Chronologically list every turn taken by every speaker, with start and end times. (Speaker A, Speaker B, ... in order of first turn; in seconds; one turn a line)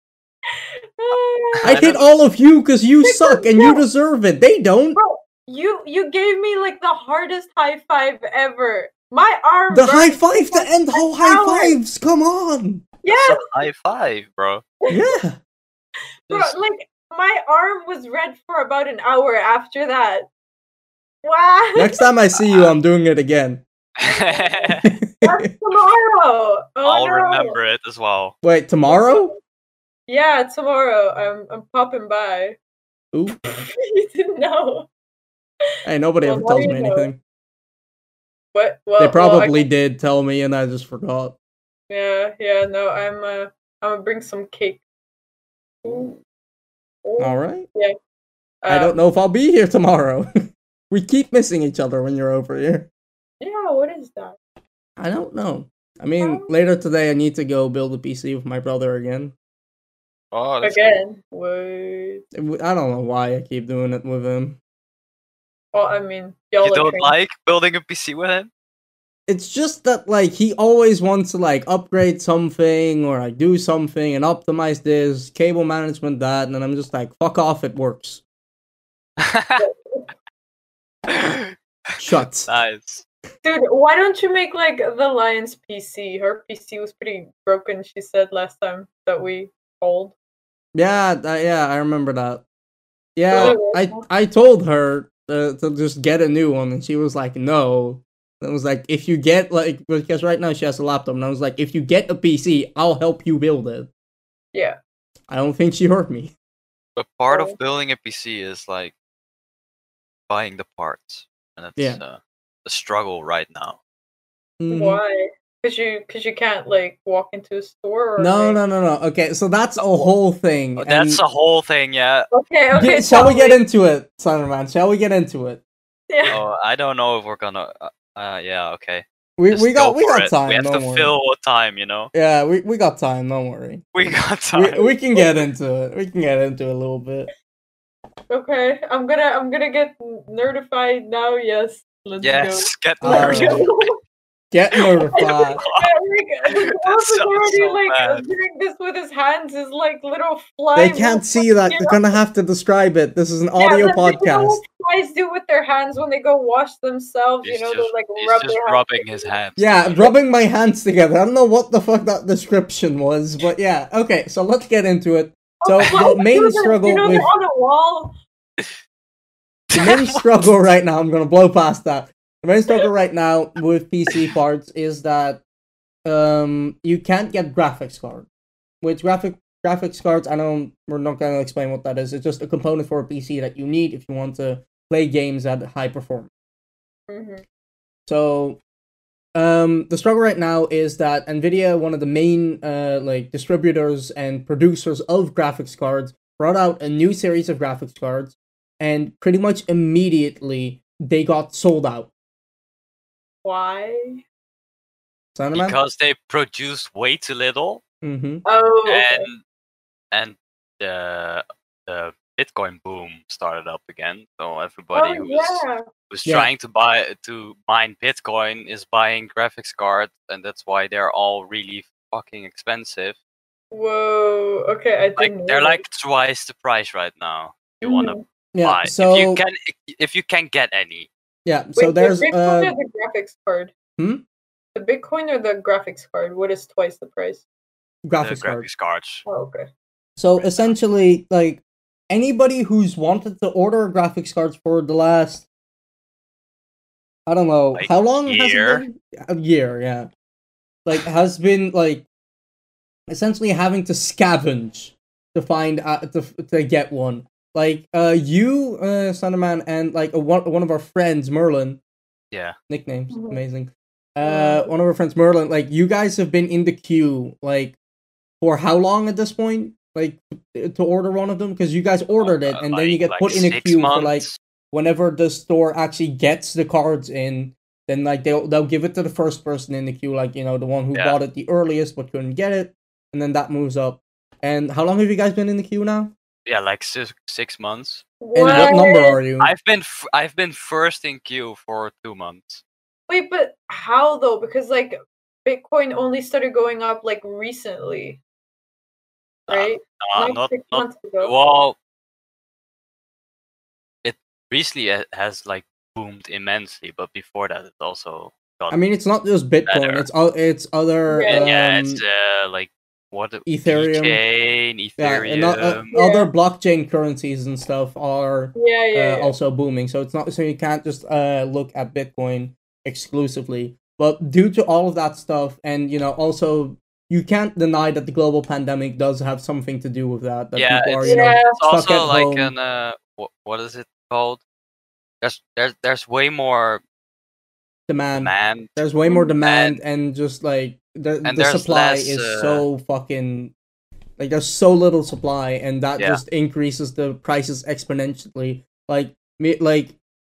Speaker A: 0.5-2.0
Speaker B: 1.6-2.0
Speaker C: 1.6-5.0
Speaker A: 3.0-3.8
Speaker A: 5.0-11.8
Speaker C: 9.7-12.9
Speaker A: 13.0-13.4
Speaker B: 13.1-14.7
Speaker A: 14.8-15.2
Speaker C: 14.9-15.4
Speaker A: 16.3-20.3
Speaker B: 16.3-16.6
Speaker A: 21.2-22.0
Speaker C: 21.8-23.6
Speaker B: 24.0-24.9
Speaker A: 24.1-27.6
Speaker C: 24.8-25.5
Speaker B: 26.8-28.4
Speaker C: 28.4-29.3
Speaker A: 28.9-29.3
Speaker A: 30.1-32.6
Speaker C: 33.1-33.5
Speaker A: 33.5-34.9
Speaker C: 35.9-37.2
Speaker A: 36.2-37.1
Speaker A: 38.5-39.7
Speaker C: 39.0-41.4
Speaker A: 41.9-44.8
Speaker A: 45.8-46.2
Speaker A: 47.0-47.9
Speaker C: 47.2-47.7
Speaker A: 48.6-49.0
Speaker C: 48.7-50.3
Speaker C: 50.9-52.9
Speaker A: 53.4-54.4
Speaker C: 55.0-59.3
Speaker A: 56.2-56.5
Speaker B: 60.3-61.0
Speaker A: 60.6-62.2
Speaker C: 62.4-64.6
Speaker A: 65.7-67.1
Speaker B: 66.6-68.5
Speaker C: 69.3-78.2
Speaker B: 79.2-79.6
Speaker A: 79.6-80.1
Speaker B: 81.1-81.6
Speaker C: 82.0-82.5
Speaker B: 82.5-83.0
Speaker A: 83.4-90.1
Speaker C: 90.7-92.4
Speaker C: 93.2-103.9
Speaker A: 93.3-94.0
Speaker C: 105.3-106.3
Speaker B: 107.0-108.9
Speaker A: 107.3-107.6
Speaker B: 110.3-113.8
Speaker C: 114.6-115.0
Speaker A: 114.7-118.6
Speaker C: 118.2-121.2
Speaker B: 119.8-120.1
Speaker B: 120.8-122.3
Speaker A: 122.3-123.6
Speaker C: 122.8-125.6
Speaker A: 126.1-126.4
Speaker B: 126.3-132.1
Speaker C: 129.4-131.1
Speaker C: 132.1-133.9
Speaker B: 133.9-134.8
Speaker C: 134.5-137.3
Speaker A: 134.8-135.2
Speaker A: 138.3-144.0
Speaker B: 142.2-143.9
Speaker C: 143.0-143.7
Speaker C: 144.5-145.6
Speaker A: 145.0-152.2
Speaker B: 145.6-145.9
Speaker B: 146.4-148.3
Speaker C: 150.8-154.6
Speaker A: 153.6-159.3
Speaker B: 157.4-160.1
Speaker C: 159.6-167.3
Speaker A: 165.6-168.2
Speaker B: 169.7-170.2
Speaker C: 169.7-175.4
Speaker C: 176.1-178.3
Speaker C: 178.8-186.3
Speaker A: 187.1-187.4
Speaker C: 188.1-188.6
Speaker C: 189.3-202.1
Speaker A: 203.4-204.2
Speaker C: 205.3-205.8
Speaker B: 205.6-207.8
Speaker C: 208.0-208.4
Speaker A: 208.4-209.3
Speaker B: 208.8-209.4
Speaker B: 210.1-223.2
Speaker A: 214.9-215.8
Speaker A: 223.7-225.8
Speaker B: 225.2-231.1
Speaker A: 227.8-228.2
Speaker C: 228.5-229.4
Speaker C: 231.5-232.8
Speaker A: 231.8-233.7
Speaker C: 234.0-234.2
Speaker A: 234.8-237.4
Speaker C: 238.1-238.7
Speaker B: 238.2-239.2
Speaker A: 239.3-239.7
Speaker C: 240.2-245.5
Speaker B: 240.4-240.8
Speaker C: 247.3-250.1
Speaker B: 247.7-248.8
Speaker C: 250.8-252.1
Speaker C: 253.1-261.8
Speaker B: 262.3-262.6
Speaker C: 262.7-267.8
Speaker A: 263.1-263.4
Speaker A: 264.2-264.7
Speaker C: 268.4-286.1
Speaker B: 272.2-274.4
Speaker B: 286.5-292.6
Speaker A: 288.2-289.2
Speaker C: 288.4-289.5
Speaker A: 293.1-298.2
Speaker A: 299.5-301.4
Speaker B: 299.5-301.8
Speaker B: 304.0-308.8
Speaker C: 308.7-312.0
Speaker B: 309.7-310.1
Speaker A: 311.1-311.5
Speaker B: 311.2-315.9
Speaker C: 313.5-314.2
Speaker C: 315.0-332.5
Speaker A: 315.9-316.3
Speaker A: 318.6-319.3
Speaker B: 330.6-334.4
Speaker A: 331.0-331.6
Speaker B: 335.2-336.8
Speaker C: 337.9-343.5
Speaker B: 338.1-338.8
Speaker A: 339.0-339.3
Speaker B: 339.4-339.8
Speaker B: 341.2-342.7
Speaker C: 344.2-350.0